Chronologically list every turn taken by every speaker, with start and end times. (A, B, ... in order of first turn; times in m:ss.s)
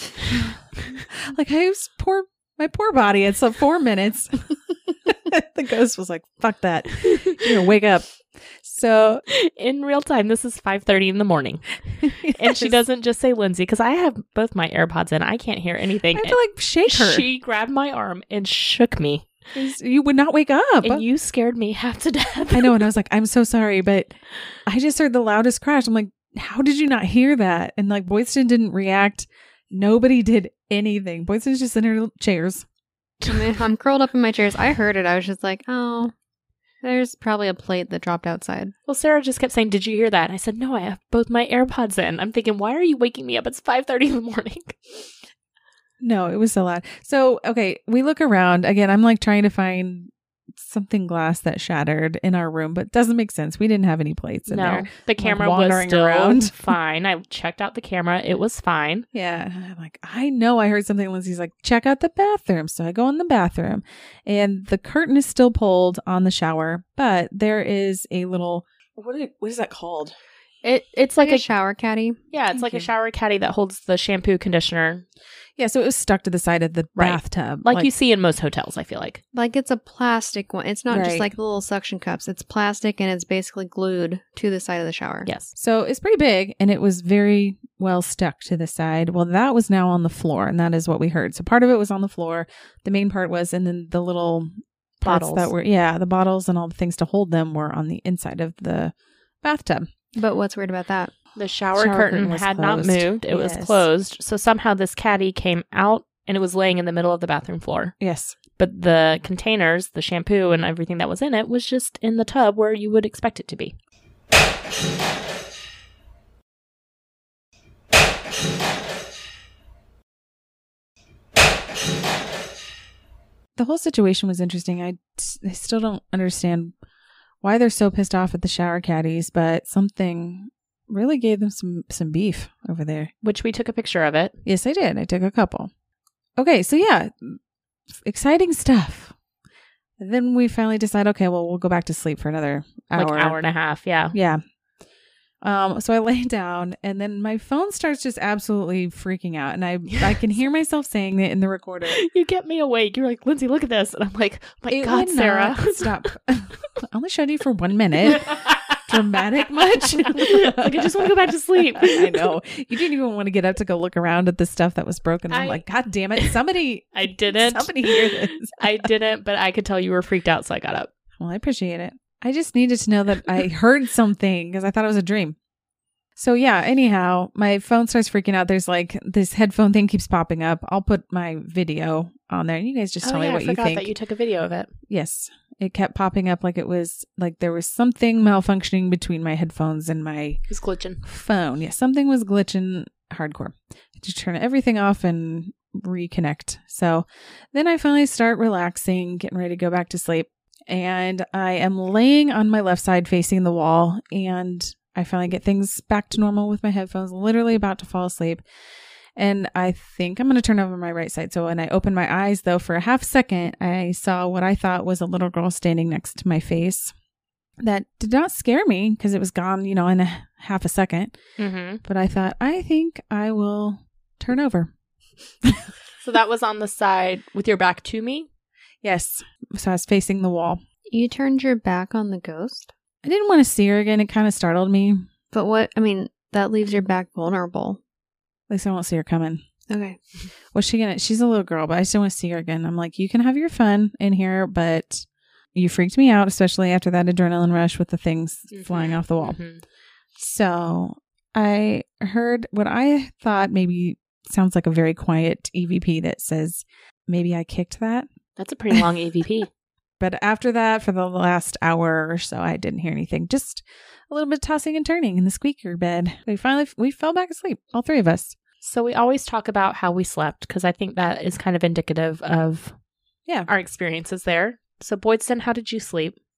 0:00.2-0:09.2 A
0:07.0-0:07.5 B
0:09.3-0:19.3 B
0:12.0-0:12.8 A
0:16.1-0:17.3 A
0:19.5-0:21.0 A
0:20.8-0:22.8 B
0:22.5-0:24.1 A
0:24.7-0:32.7 A
0:33.2-0:36.1 C
0:36.8-0:38.7 C
0:38.9-0:45.1 B
0:46.0-0:56.7 A
0:54.5-0:59.1 B
0:59.1-1:10.1 A
1:10.6-1:11.4 B
1:11.2-1:12.2 C
1:12.3-1:15.1 B
1:12.5-1:12.9 A
1:15.6-1:17.9 A
1:17.0-1:19.2 B
1:19.3-1:25.3 C
1:20.9-1:21.3 A
1:25.2-1:25.5 B
1:25.6-1:39.9 A
1:35.0-1:35.5 B
1:40.2-1:41.1 C
1:41.4-1:48.0 B
1:41.8-1:43.9 A
1:48.0-1:48.4 A
1:48.6-1:53.8 B
2:03.6-2:06.7 A
2:07.4-2:13.1 A
2:13.2-2:14.4 B
2:14.4-2:15.7 A
2:16.4-2:17.4 A
2:18.0-2:19.1 A
2:20.0-2:23.4 A
2:22.9-2:24.2 B
2:24.1-2:24.4 A
2:25.4-2:32.0 A
2:31.9-2:36.1 B
2:34.7-2:38.4 A
2:38.2-2:38.8 B
2:38.9-2:48.9 A
2:40.0-2:42.3 B
2:45.3-2:45.6 B
2:46.9-2:50.9 B
2:51.2-2:55.4 A
2:56.2-3:03.9 A
3:03.0-3:04.7 B
3:04.9-3:10.4 A
3:10.5-3:11.0 B
3:11.0-3:28.4 A
3:29.2-3:36.9 A
3:37.6-3:41.2 A
3:41.4-3:41.8 B
3:41.8-3:44.7 A
3:45.4-3:45.7 A
3:46.0-3:48.3 B
3:48.8-3:50.6 A
3:50.9-3:52.7 C
3:53.0-3:55.1 A
3:55.3-3:57.8 C
3:58.5-3:59.4 A
3:59.7-4:00.0 C
4:00.5-4:09.4 A
4:08.5-4:09.6 B
4:10.2-4:18.1 A
4:18.4-4:19.5 B
4:20.0-4:28.4 A
4:28.6-4:32.7 B
4:33.5-4:36.2 B